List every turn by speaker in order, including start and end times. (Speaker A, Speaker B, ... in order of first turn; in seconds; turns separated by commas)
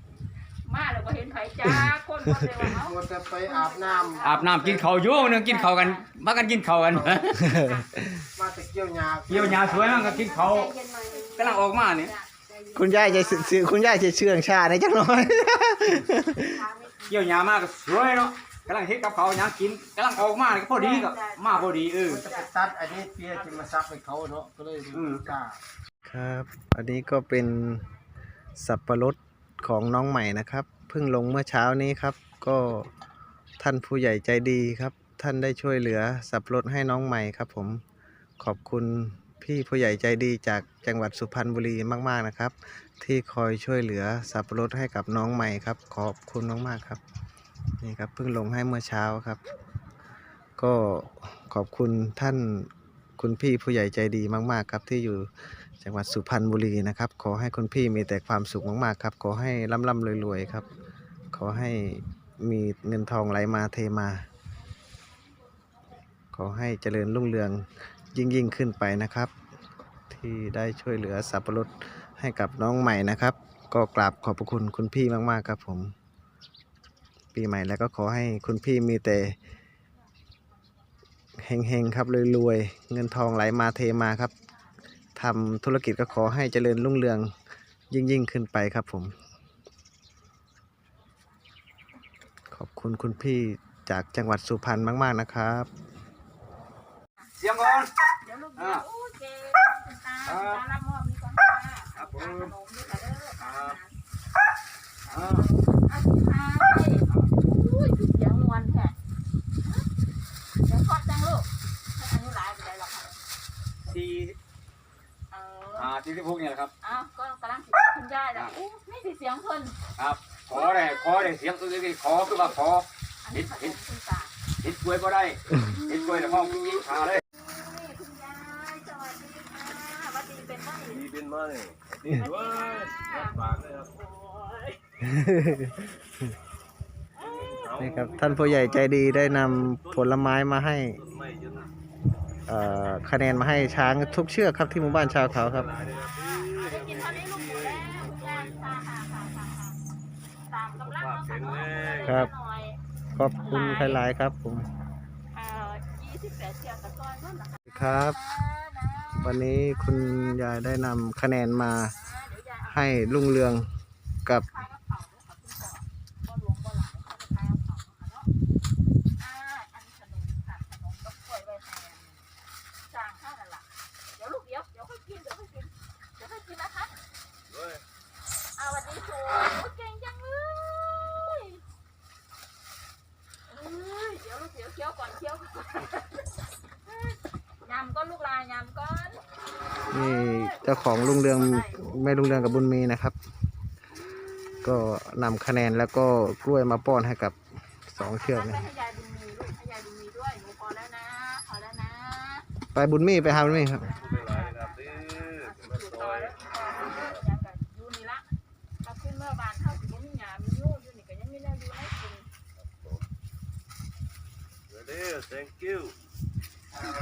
Speaker A: 0.6-6.0, Speaker B: 2.8-4.8, Speaker C: 4.2-7.5, Speaker B: 6.9-7.3, Speaker D: 7.3-8.2, Speaker A: 7.5-7.8, Speaker B: 8.3-11.7, Speaker C: 9.3-10.7, Speaker A: 10.6-12.3, Speaker C: 11.3-12.1, Speaker B: 12.4-13.6, Speaker D: 12.7-16.6, Speaker B: 16.4-17.3, Speaker C: 17.1-22.2, Speaker A: 20.7-22.5, Speaker B: 22.1-25.6, Speaker A: 23.2-23.7, Speaker C: 24.9-25.3, Speaker D: 26.0-27.9, Speaker D: 28.6-32.9, Speaker D: 33.6-37.8, Speaker D: 38.4-47.0, Speaker D: 47.8-49.4, Speaker D: 50.6-60.7, Speaker D: 61.3-64.2, Speaker D: 66.3-69.3, Speaker D: 70.1-75.9, Speaker D: 77.3-79.3, Speaker D: 81.4-84.3, Speaker D: 85.1-87.3, Speaker D: 87.9-89.1, Speaker D: 92.5-95.7, Speaker C: 97.4-97.9, Speaker A: 98.2-103.9, Speaker C: 98.6-98.8, Speaker C: 100.2-100.6, Speaker C: 102.0-102.5, Speaker C: 103.4-103.8, Speaker A: 105.0-108.9, Speaker C: 105.1-105.5, Speaker A: 110.6-113.2, Speaker C: 113.8-114.3, Speaker A: 115.3-115.9, Speaker C: 115.8-116.7, Speaker A: 116.8-119.8, Speaker C: 120.0-123.8, Speaker A: 120.5-121.3, Speaker A: 122.2-122.6, Speaker A: 123.2-124.3, Speaker C: 124.6-127.2, Speaker A: 125.8-131.2, Speaker A: 132.1-134.8, Speaker D: 135.0-135.9, Speaker A: 137.2-137.9, Speaker D: 137.7-141.0, Speaker D: 142.5-145.8, Speaker A: 145.7-149.8, Speaker A: 150.5-152.8, Speaker D: 152.0-152.3, Speaker D: 153.1-154.7, Speaker A: 153.4-154.0, Speaker A: 155.3-160.6, Speaker D: 157.7-158.2, Speaker D: 159.2-161.9, Speaker A: 161.5-163.4, Speaker D: 162.7-163.7, Speaker A: 164.4-168.3, Speaker A: 169.2-172.2, Speaker A: 172.8-177.0, Speaker A: 178.6-181.6, Speaker A: 183.5-186.3, Speaker A: 186.9-189.2, Speaker A: 189.9-192.1, Speaker D: 189.9-193.2, Speaker D: 194.6-197.4, Speaker D: 197.9-198.7, Speaker A: 198.0-202.4, Speaker D: 202.7-203.9, Speaker A: 203.4-212.3, Speaker B: 214.8-215.9